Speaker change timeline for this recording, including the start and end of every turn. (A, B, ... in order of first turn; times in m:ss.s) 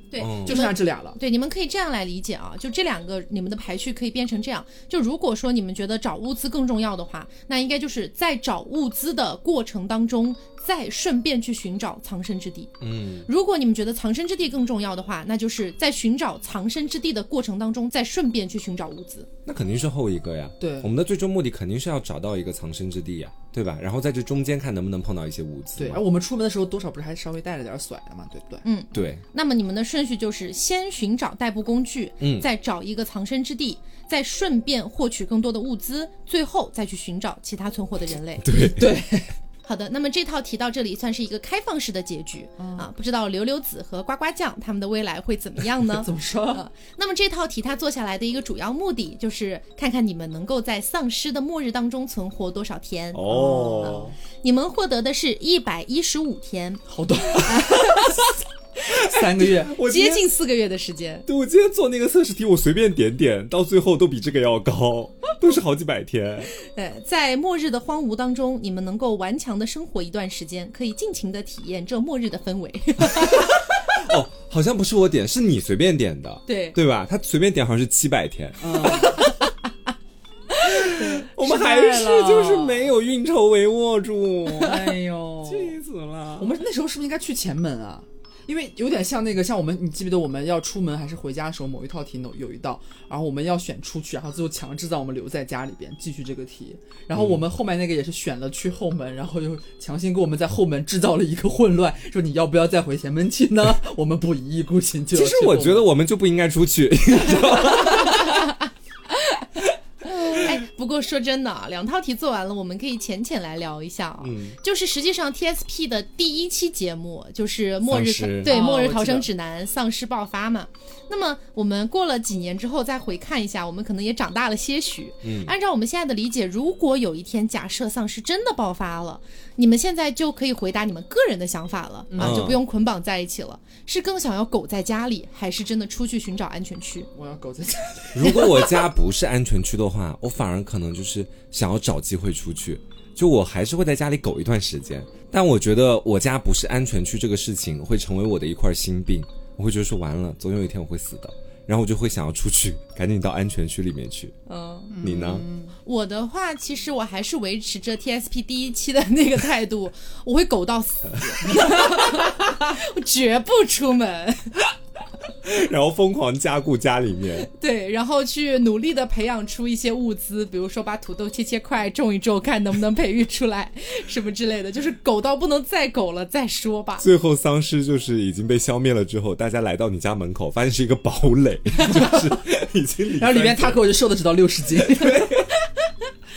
0:00.1-0:19.3 A
0:00.2-0:00.6 B
0:00.4-0:01.2 C
0:12.8-0:13.3 B
0:19.4-0:26.0 B
0:20.6-0:20.9 C
0:25.8-0:28.6 C
0:28.6-0:38.5 A
0:28.9-0:29.2 B
0:32.2-0:32.5 B
0:38.4-0:38.9 B
0:38.6-0:39.3 C
0:39.6-0:58.3 A
0:42.6-0:42.9 C
0:46.0-0:46.6 C
0:53.1-0:54.2 B
0:53.3-0:54.1 C
0:56.9-0:58.2 C
0:58.9-0:59.7 C
0:59.2-1:00.3 B
0:59.8-1:01.3 A
1:01.3-1:06.5 B
1:06.6-1:13.6 A
1:13.0-1:19.4 B
1:16.5-1:16.8 A
1:18.6-1:19.2 C
1:20.5-1:22.9 A
1:20.6-1:26.6 B
1:24.5-1:25.8 C
1:26.4-1:45.9 C
1:37.1-1:37.4 B
1:45.1-1:48.5 B
1:47.9-1:48.6 A
1:49.1-1:49.5 A
1:50.0-2:17.1 A
1:54.2-1:54.6 B
1:57.9-1:58.5 B
1:58.4-1:59.3 C
2:05.2-2:05.5 B
2:12.1-2:12.5 C
2:12.2-2:12.6 B
2:17.1-2:18.8 C
2:18.1-2:34.4 B
2:34.5-2:35.0 A
2:34.9-2:35.8 C
2:35.0-2:35.5 B
2:35.8-2:44.6 A
2:45.4-2:47.5 B
2:47.5-2:57.0 A
2:57.0-3:03.8 B
3:03.2-3:05.4 C
3:05.0-3:05.5 B